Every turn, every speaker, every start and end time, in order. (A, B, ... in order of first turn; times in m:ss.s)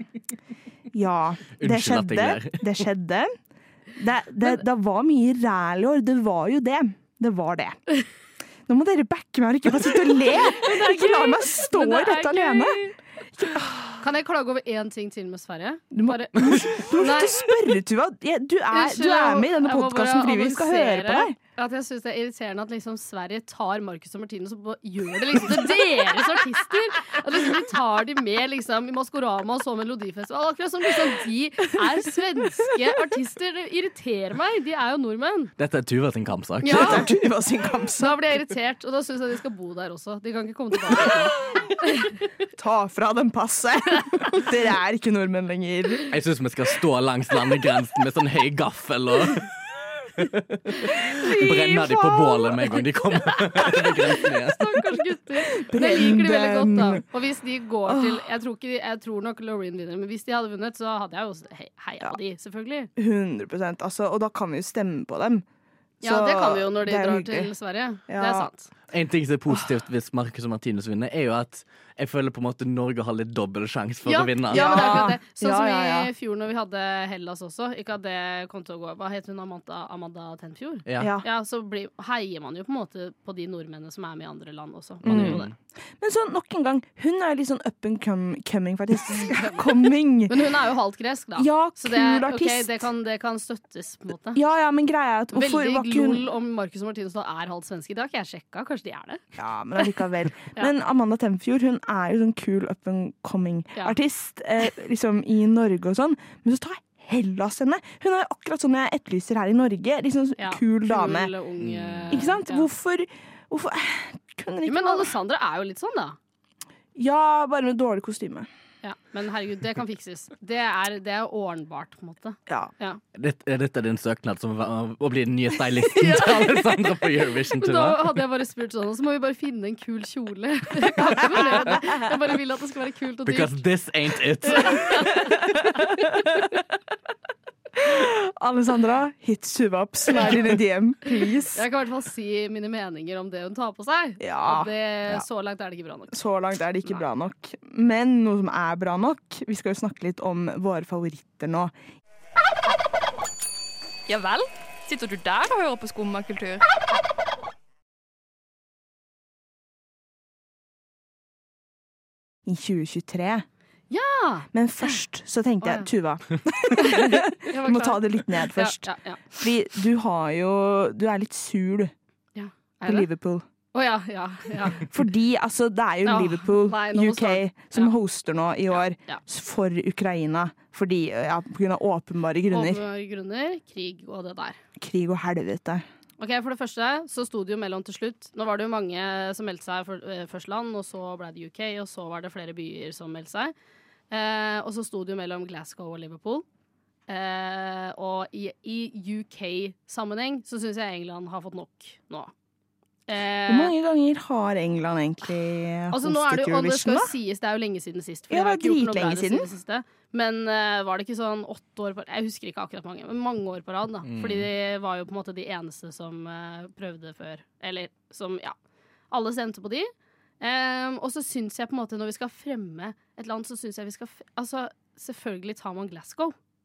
0:00.9-0:03.3 A
0:01.6-0:02.7 B
0:04.0-0:07.8 A
0:08.7-0:12.8 A
0:10.4-0:12.9 C
0:13.4-0:14.0 A
0:14.0-0:17.4 C
0:15.9-0:21.4 A
0:18.7-0:35.5 C
0:35.6-0:37.0 B
0:36.6-0:37.1 C
0:36.7-0:38.2 A
0:38.0-0:42.2 C
0:42.6-0:46.0 A
0:46.1-0:49.5 B
0:50.2-0:54.9 B
0:50.8-1:02.9 C
0:55.6-0:57.0 A
0:57.9-0:58.2 A
1:03.0-1:05.4 A
1:06.0-1:07.5 A
1:06.0-1:08.7 C
1:08.1-1:08.5 A
1:08.9-1:15.0 B
1:14.0-1:25.5 C
1:14.5-1:16.1 A
1:20.8-1:21.1 B
1:21.0-1:21.3 A
1:25.0-1:25.4 A
1:25.0-1:25.5 B
1:26.0-1:30.4 A
1:29.1-1:34.4 C
1:31.4-1:32.8 A
1:34.3-1:36.2 A
1:35.3-1:39.2 C
1:39.4-1:51.3 A
1:50.4-1:52.7 C
1:51.6-1:52.2 B
1:52.1-1:55.1 A
1:54.6-1:56.2 C
1:56.9-1:58.5 A
1:58.8-2:03.0 C
2:03.1-2:08.0 B
2:05.9-2:06.8 C
2:07.6-2:13.6 C
2:11.1-2:11.8 A
2:13.2-2:15.2 B
2:14.4-2:15.5 C
2:17.8-2:21.6 A
2:21.5-2:26.2 C
2:24.2-2:25.2 A
2:26.1-2:31.7 A
2:34.1-2:36.6 D
2:42.4-2:43.4 A
2:43.9-2:45.0 C
2:44.5-2:51.9 A
2:45.6-2:45.9 C
2:46.8-2:49.3 C
2:52.3-2:53.1 C
2:52.8-2:53.4 A
2:53.7-2:54.9 C
2:54.7-3:02.8 A
2:56.0-2:57.9 C
2:58.7-2:59.2 C
3:02.5-3:04.6 C
3:04.8-3:05.8 A
3:06.2-3:13.5 C
3:14.1-3:16.4 C
3:17.1-3:22.3 C
3:23.1-3:23.7 C
3:23.5-3:27.1 A
3:25.9-3:38.6 C
3:28.3-3:29.5 A
3:34.0-3:34.5 B
3:39.1-3:46.3 C